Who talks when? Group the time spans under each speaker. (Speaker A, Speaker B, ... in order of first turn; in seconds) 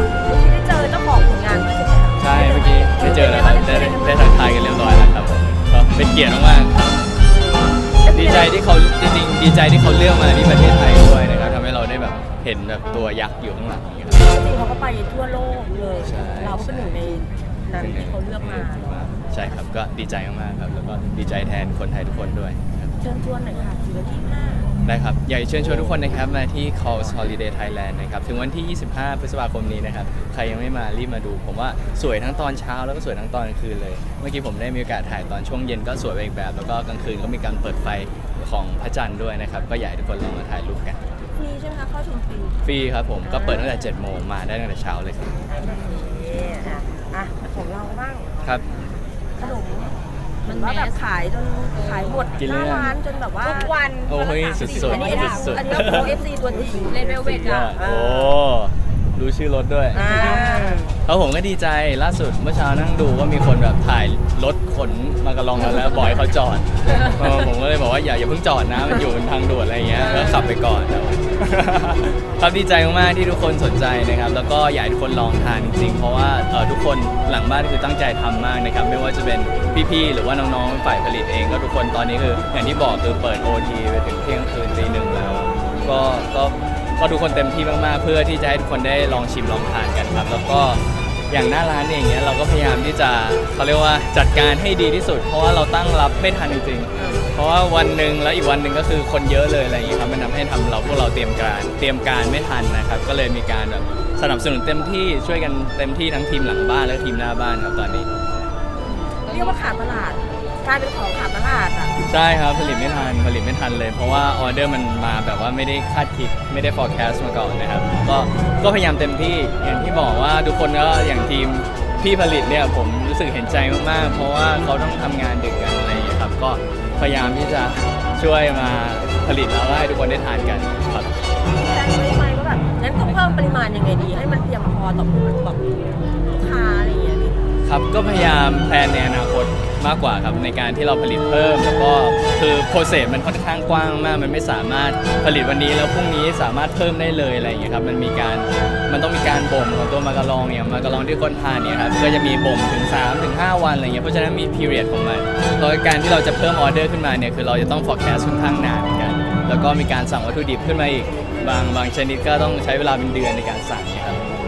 Speaker A: 0.2-4.4, 7.2-8.6, 14.2-19.6, 23.0-24.7, 41.4-42.6, 43.2-43.7, 45.5-48.5, 49.4-57.0, 57.6-58.4, 59.9-60.9, 70.0-70.5, 97.0-97.3, 108.8-111.9, 131.5-135.6, 136.3-137.4, 161.3-161.7
Speaker B: 2.2-6.8, 8.1-14.3, 16.0-17.1, 17.7-23.0, 24.9-41.0, 42.6-45.3, 52.4-53.0, 54.1-56.2, 57.2-60.1, 61.1-108.1, 112.1-131.1, 137.6-164.2
Speaker C: 50.5-51.0, 51.8-52.3, 53.4-55.3, 56.9-57.8, 109.3-109.6